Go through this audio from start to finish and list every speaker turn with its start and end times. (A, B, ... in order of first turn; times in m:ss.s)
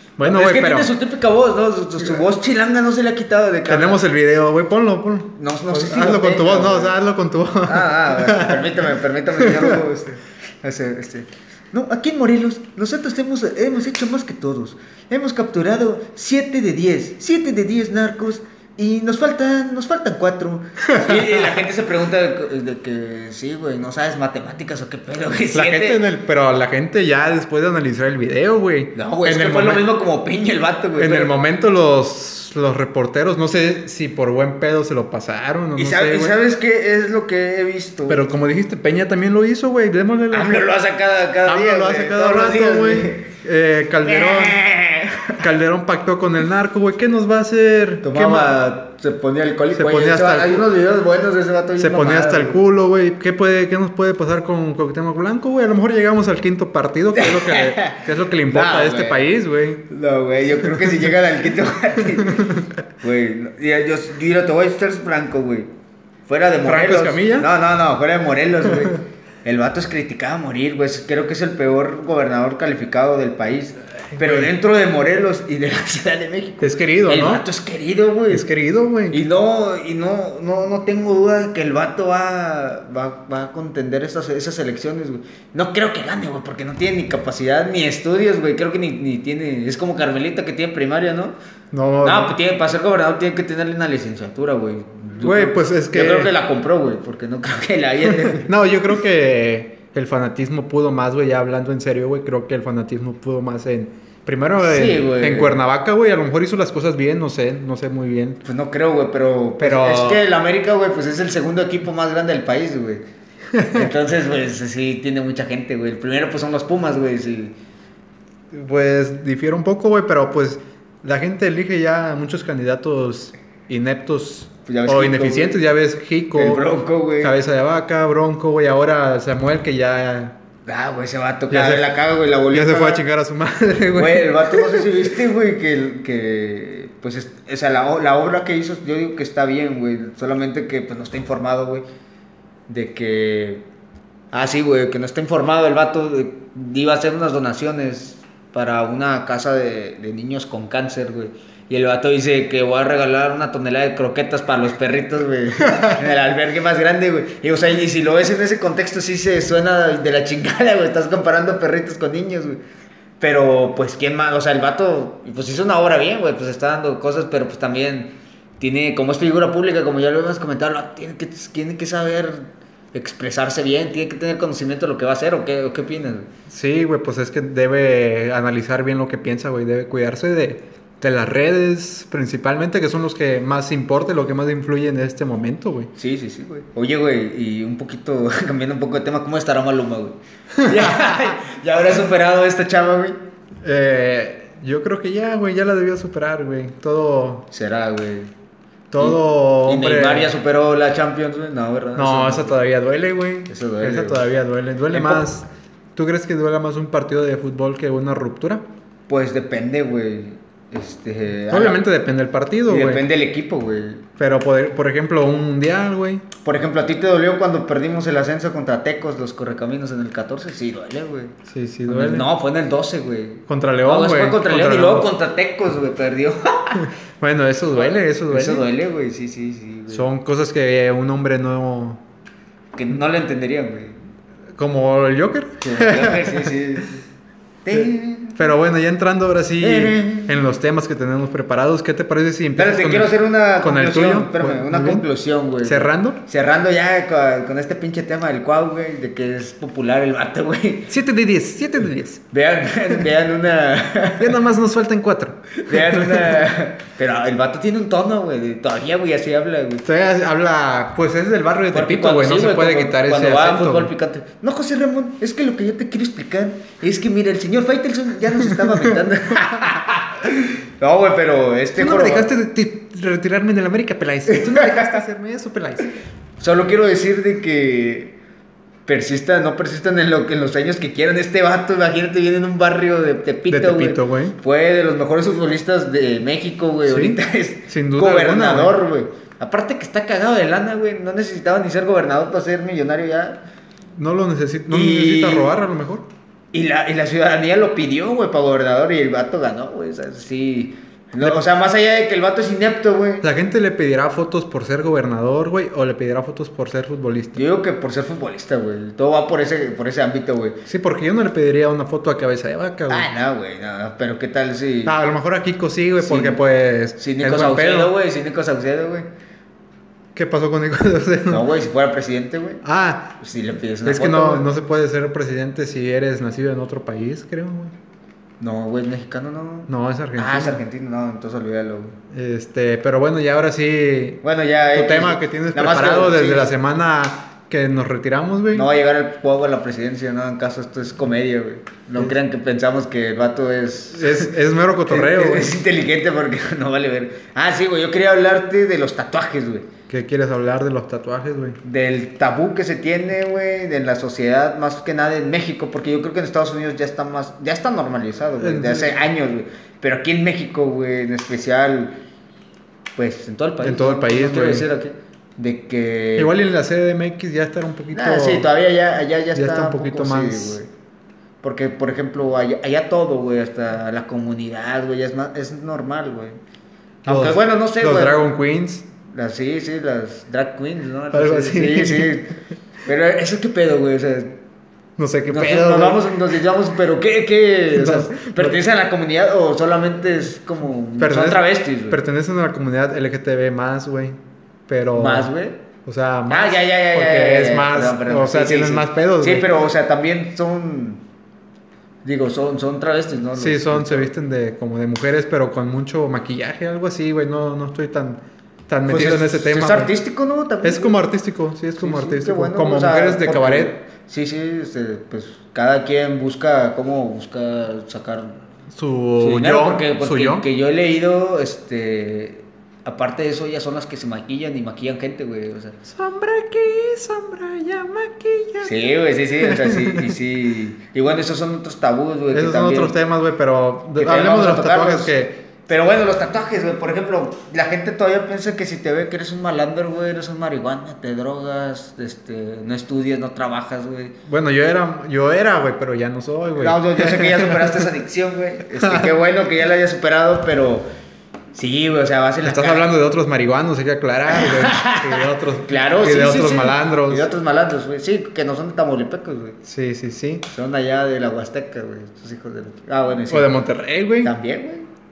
0:00.2-0:00.9 A
0:00.2-0:04.0 B
0:03.7-0:08.9 A
0:05.4-0:07.0 B
0:07.6-0:26.0 B
0:09.4-0:09.8 A
0:20.9-0:21.5 A
0:25.5-0:29.9 A
0:28.9-0:31.3 B
0:31.0-0:36.4 A
0:35.8-0:38.2 B
0:38.1-0:40.6 A
0:40.3-0:43.3 B
0:41.4-0:44.6 A
0:44.0-0:45.4 B
0:45.4-0:48.6 A
0:48.0-0:52.6 B
0:49.7-0:50.7 A
0:51.8-0:59.8 A
0:57.1-0:59.3 B
0:59.9-1:05.7 B
1:06.3-1:18.5 B
1:06.6-1:07.5 A
1:14.1-1:14.5 A
1:16.6-1:17.4 A
1:18.3-1:19.2 A
1:19.1-1:31.4 B
1:31.7-1:32.4 A
1:32.0-1:38.5 B
1:35.2-1:36.3 A
1:38.1-1:48.4 A
1:44.6-1:45.6 B
1:48.4-1:53.0 B
1:49.6-1:50.2 A
1:53.5-1:53.9 A
1:53.7-1:57.5 B
1:58.5-2:06.6 A
2:04.7-2:05.6 B
2:06.3-2:07.3 B
2:07.2-2:10.4 A
2:10.6-2:13.0 B
2:11.5-2:11.9 A
2:12.5-2:14.8 A
2:13.9-2:21.8 B
2:22.7-2:23.6 B
2:24.3-2:42.6 B
2:43.2-2:56.3 B
2:56.5-3:05.9 A
3:05.9-3:13.2 B
3:10.6-3:11.2 A
3:13.6-3:17.5 A
3:17.5-3:18.3 B
3:18.9-3:20.3 A
3:19.0-3:22.6 B
3:22.0-3:28.6 A
3:23.5-3:24.2 B
3:24.9-3:25.3 B
3:29.1-3:31.8 B
3:31.5-3:33.0 A
3:32.7-3:34.0 B
3:34.2-3:36.2 A
3:36.4-3:41.3 B
3:41.4-3:42.3 A
3:41.9-3:46.9 B
3:43.5-3:45.1 A
3:46.8-3:48.7 A
3:47.7-3:50.1 B
3:49.9-3:52.0 A
3:52.7-3:54.0 B
3:54.6-3:56.5 A
3:55.6-3:57.0 B
3:57.6-3:58.4 B
3:58.4-4:05.0 A
3:59.6-4:00.3 B
4:02.6-4:10.9 B
4:05.6-4:06.2 A
4:10.9-4:12.2 A
4:12.3-4:14.4 B
4:14.2-4:16.4 A
4:15.6-4:19.8 B
4:19.8-4:23.9 A
4:21.7-4:32.3 B
4:28.6-4:28.9 A
4:31.8-4:35.9 A
4:34.3-4:34.9 B
4:36.4-4:38.2 B
4:38.9-4:53.4 B
4:43.5-4:44.3 A
4:46.8-4:48.8 A
4:54.0-4:56.1 A
4:54.7-4:55.5 B
4:56.5-5:03.2 B
5:03.2-5:07.4 A
5:07.3-5:10.6 B
5:10.7-5:13.1 A
5:12.9-5:15.0 B
5:14.8-5:17.9 A
5:16.0-5:16.4 B
5:17.0-5:19.1 B
5:20.1-5:21.5 A
5:21.3-5:22.6 B
5:22.6-5:23.2 A
5:23.2-5:24.5 B
5:23.8-5:27.7 A
5:28.4-5:32.0 B
5:29.7-5:30.6 A
5:32.1-5:34.2 A
5:34.2-5:36.5 B
5:34.7-5:38.7 A
5:38.5-5:49.7 B
5:43.9-5:45.6 A
5:49.9-5:51.6 A
5:51.6-6:01.9 B
5:58.4-5:59.0 A
6:03.0-6:06.3 B
6:03.6-6:04.6 A
6:06.2-6:08.5 A
6:07.9-6:10.7 B
6:09.3-6:10.6 A
6:11.4-6:16.4 B
6:17.0-6:18.2 B
6:17.0-6:18.8 A
6:19.0-6:22.3 B
6:21.1-6:22.1 A
6:22.8-6:24.4 B
6:25.0-6:26.0 A
6:25.3-6:32.0 B
6:27.7-6:28.6 A
6:31.0-6:35.3 A
6:34.9-6:35.6 B
6:35.8-6:39.5 A
6:36.3-6:41.0 B
6:42.0-6:44.1 B
6:43.4-6:49.9 A
6:48.9-6:51.0 B
6:50.6-6:53.7 A
6:51.8-6:58.4 B
6:58.7-7:00.4 A
6:59.2-7:05.8 B
7:05.8-7:08.7 A
7:08.6-7:13.0 B
7:09.4-7:10.1 A
7:12.3-7:15.4 A
7:14.0-7:15.1 B
7:15.7-7:24.2 B
7:24.3-7:27.9 A
7:26.6-7:30.9 B
7:28.8-7:29.1 A
7:31.5-7:32.8 B
7:32.4-7:37.3 A
7:34.3-7:39.6 B
7:39.6-7:40.4 A
7:40.5-7:43.5 B
7:43.3-7:44.3 A
7:44.2-7:44.9 B